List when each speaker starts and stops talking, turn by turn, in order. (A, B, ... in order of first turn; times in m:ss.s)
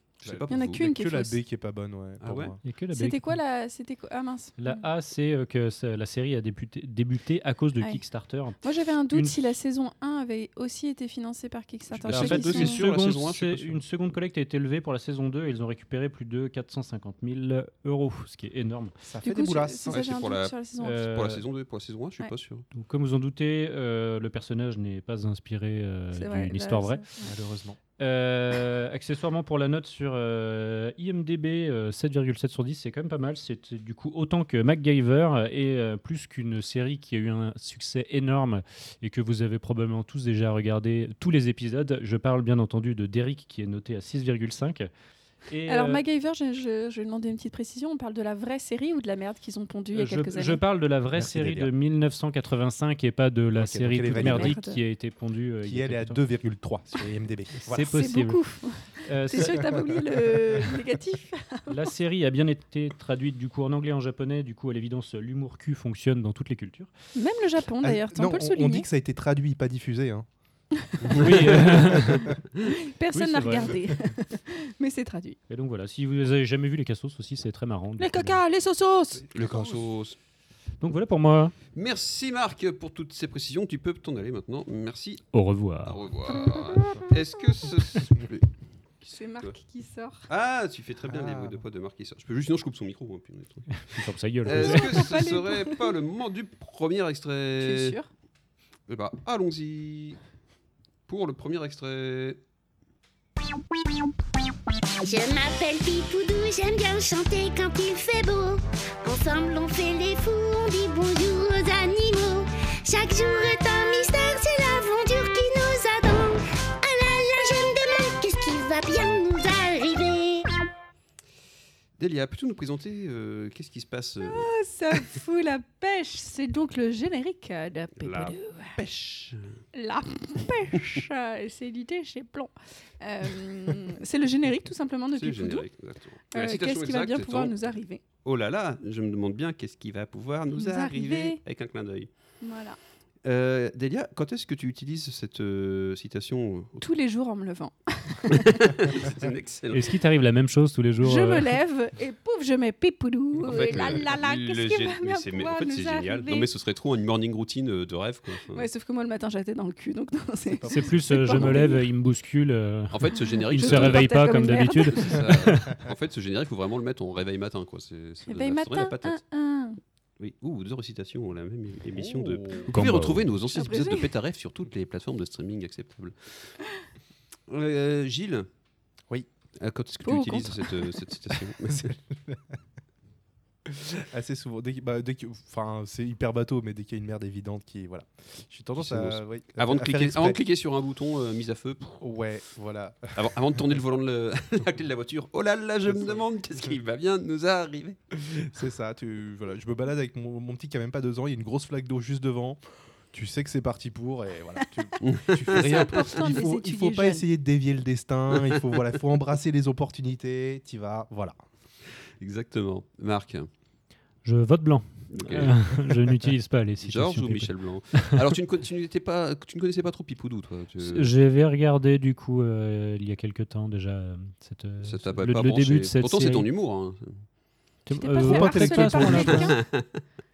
0:00.2-0:00.8 A
0:00.2-0:02.6 B
0:00.5-0:01.4 C
0:02.2-0:02.6 A
0:02.6-0:03.4 D
0:02.9-0:04.8 C
0:04.6-0:08.6 D
0:08.6-0:12.8 C
0:12.0-0:13.8 A
0:12.0-0:18.9 D
0:19.0-0:20.1 B
0:19.2-0:21.0 C
0:19.9-0:22.6 A
0:20.8-0:21.4 D
0:22.7-0:27.0 D
0:26.1-0:27.0 C
0:27.2-0:27.8 B
0:28.0-0:44.9 D
0:45.5-0:46.0 D
0:45.7-0:50.6 C
0:49.9-0:56.2 D
0:51.1-0:51.7 B
0:53.5-0:54.6 B
0:54.2-0:54.8 C
0:55.6-0:57.8 B
0:57.6-0:58.4 D
0:57.8-1:01.8 C
0:59.0-0:59.8 D
0:59.5-0:59.8 B
1:01.7-1:06.9 D
1:07.1-1:08.9 C
1:07.8-1:10.3 B
1:11.0-1:12.2 A
1:11.1-1:12.3 D
1:12.9-1:15.4 C
1:13.1-1:13.8 D
1:15.5-1:18.4 D
1:18.0-1:19.2 C
1:19.3-1:20.2 A
1:19.3-1:19.8 B
1:20.8-1:21.5 D
1:21.7-1:25.3 A
1:25.3-1:26.0 D
1:25.8-1:28.4 A
1:26.3-1:27.7 C
1:29.0-1:30.2 C
1:30.3-1:38.0 A
1:31.1-1:31.6 B
1:33.7-1:35.1 D
1:34.5-1:35.9 C
1:37.6-1:38.1 C
1:38.9-1:40.2 A
1:41.1-1:42.4 A
1:45.0-2:00.5 E
2:02.0-2:04.5 A
2:04.2-2:08.8 C
2:08.0-2:09.6 A
2:09.7-2:15.7 C
2:15.2-2:17.7 A
2:16.3-2:18.0 C
2:18.2-2:22.1 A
2:20.6-2:21.4 C
2:22.4-2:22.8 C
2:23.2-2:26.8 A
2:26.8-2:28.5 C
2:28.3-2:30.0 A
2:29.7-2:31.6 D
2:31.0-2:36.5 C
2:33.4-2:38.7 A
2:38.5-2:41.8 C
2:40.5-2:41.6 B
2:40.7-2:45.8 D
2:42.9-2:49.2 A
2:43.2-2:45.1 C
2:48.3-2:49.8 C
2:50.2-2:56.5 A
2:51.9-2:52.7 B
2:52.7-2:53.3 D
2:53.5-2:54.1 C
2:57.5-2:58.5 A
2:59.6-3:01.9 A
3:00.0-3:00.8 C
3:01.6-3:02.6 B
3:03.6-3:10.4 B
3:08.8-3:12.0 A
3:12.0-3:13.2 B
3:13.1-3:18.0 A
3:15.8-3:16.8 B
3:18.2-3:31.4 B
3:25.0-3:25.9 A
3:25.5-3:27.2 C
3:28.3-3:28.8 A
3:32.2-3:33.5 A
3:34.2-3:38.2 D
3:35.1-3:35.7 A
3:36.8-3:41.1 A
3:40.8-3:46.5 D
3:44.8-3:47.2 A
3:47.8-3:49.6 D
3:48.0-3:49.6 C
3:48.2-3:49.3 B
3:49.3-3:50.0 A